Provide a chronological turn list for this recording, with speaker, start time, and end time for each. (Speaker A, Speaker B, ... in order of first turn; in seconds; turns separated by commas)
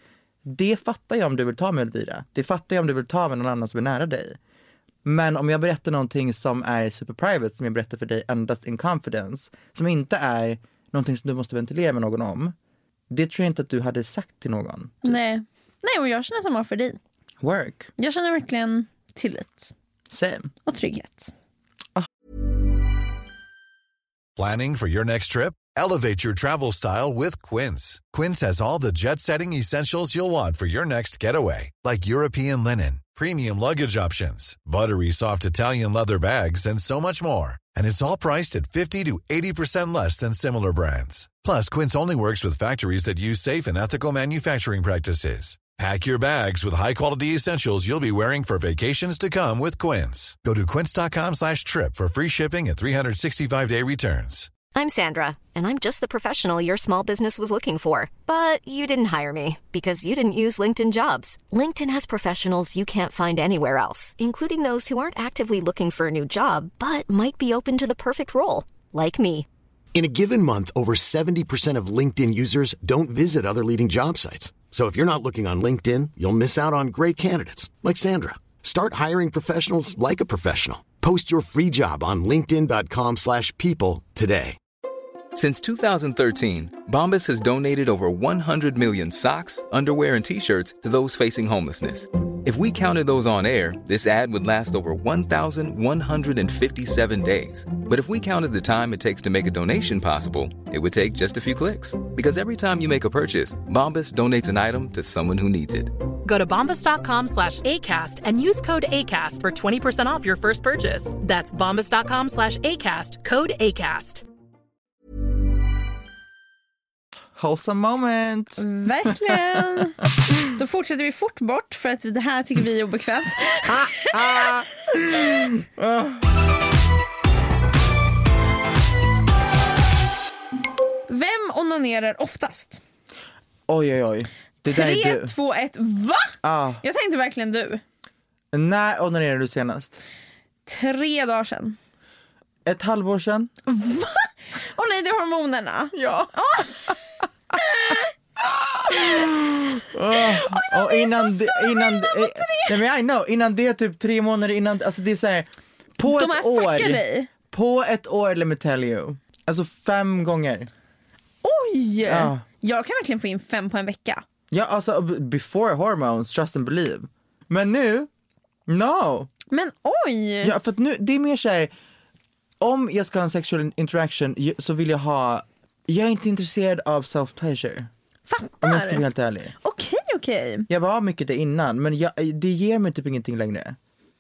Speaker A: 0.5-4.4, Speaker A: 5.0-12.6, Speaker A: 13.1-15.2, Speaker B: 15.0-17.0, Speaker A: 17.4-17.9, Speaker B: 18.0-19.7, Speaker A: 20.1-20.5, Speaker B: 20.7-21.3, Speaker C: 24.4-54.5, Speaker D: 54.7-69.5, Speaker E: 69.9-84.6, Speaker F: 85.3-105.9, Speaker G: 106.2-114.2, Speaker A: 117.4-119.8, Speaker B: 118.6-124.5, Speaker A: 123.7-126.2, Speaker B: 131.1-132.8, Speaker A: 133.7-135.3, Speaker B: 134.7-137.8, Speaker A: 136.4-136.8, Speaker A: 138.5-140.0, Speaker B: 140.7-141.8, Speaker A: 142.7-143.5, Speaker B: 143.7-146.9, Speaker A: 145.9-146.9, Speaker B: 147.6-148.1, Speaker A: 148.4-160.7, Speaker B: 148.9-149.3, Speaker B: 150.1-152.8, Speaker B: 156.1-157.3, Speaker B: 161.4-164.2, Speaker A: 162.0-162.4, Speaker A: 164.5-168.1, Speaker A: 168.7-169.3, Speaker B: 169.5-170.5, Speaker A: 170.4-171.7, Speaker A: 172.6-177.9, Speaker B: 178.3-179.0, Speaker A: 178.6-179.5, Speaker B: 179.6-180.7, Speaker A: 180.7-183.8